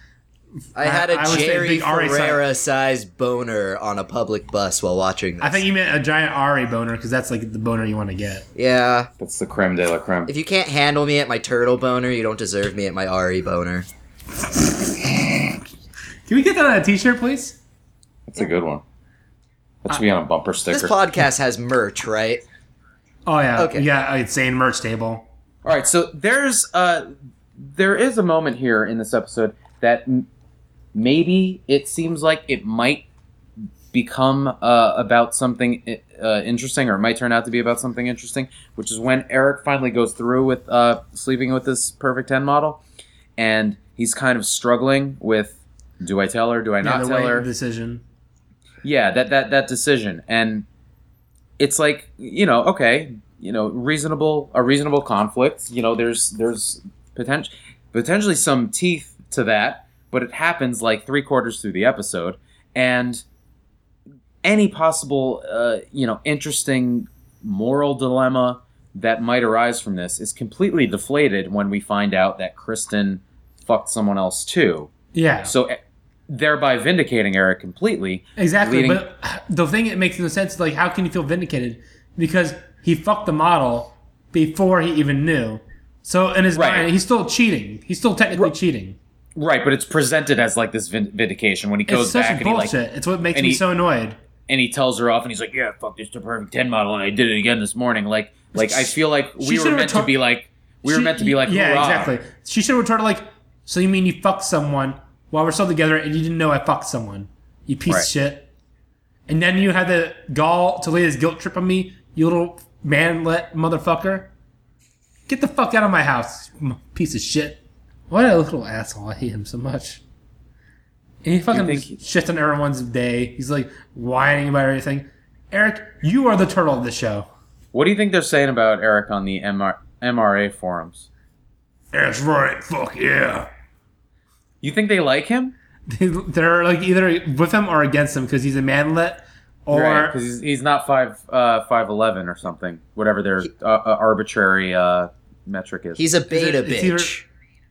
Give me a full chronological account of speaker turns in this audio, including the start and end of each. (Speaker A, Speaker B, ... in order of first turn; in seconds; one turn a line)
Speaker A: 0.8-5.6
Speaker B: 0.8-2.4
Speaker B: 5.4-8.4
Speaker A: 8.6-9.1
Speaker C: 9.2-10.3
Speaker A: 10.3-13.9
Speaker B: 16.3-17.6
Speaker C: 18.3-18.8
Speaker C: 19.8-20.9
Speaker A: 20.7-22.4
Speaker B: 23.2-25.2
Speaker A: 23.6-23.8
Speaker C: 25.6-30.3
Speaker C: 30.9-33.0
Speaker C: 33.9-42.8
Speaker C: 43.4-47.5
Speaker B: 46.8-48.0
Speaker C: 48.8-50.6
Speaker C: 51.6-63.2
Speaker C: 64.4-74.9
Speaker B: 75.1-75.5
Speaker C: 75.5-79.0
Speaker B: 78.4-89.0
Speaker C: 86.5-86.9
Speaker C: 89.3-92.7
Speaker B: 91.9-94.2
Speaker C: 93.3-93.6
Speaker C: 94.5-102.1
Speaker B: 98.5-100.1
Speaker B: 100.8-108.5
Speaker B: 109.3-114.3
Speaker B: 115.3-120.0
Speaker B: 121.2-127.3
Speaker C: 121.5-122.0
Speaker C: 127.7-131.1
Speaker B: 131.9-133.5
Speaker C: 134.6-135.5
Speaker B: 135.9-140.2
Speaker C: 139.7-146.0
Speaker A: 145.9-147.2
Speaker B: 146.3-147.2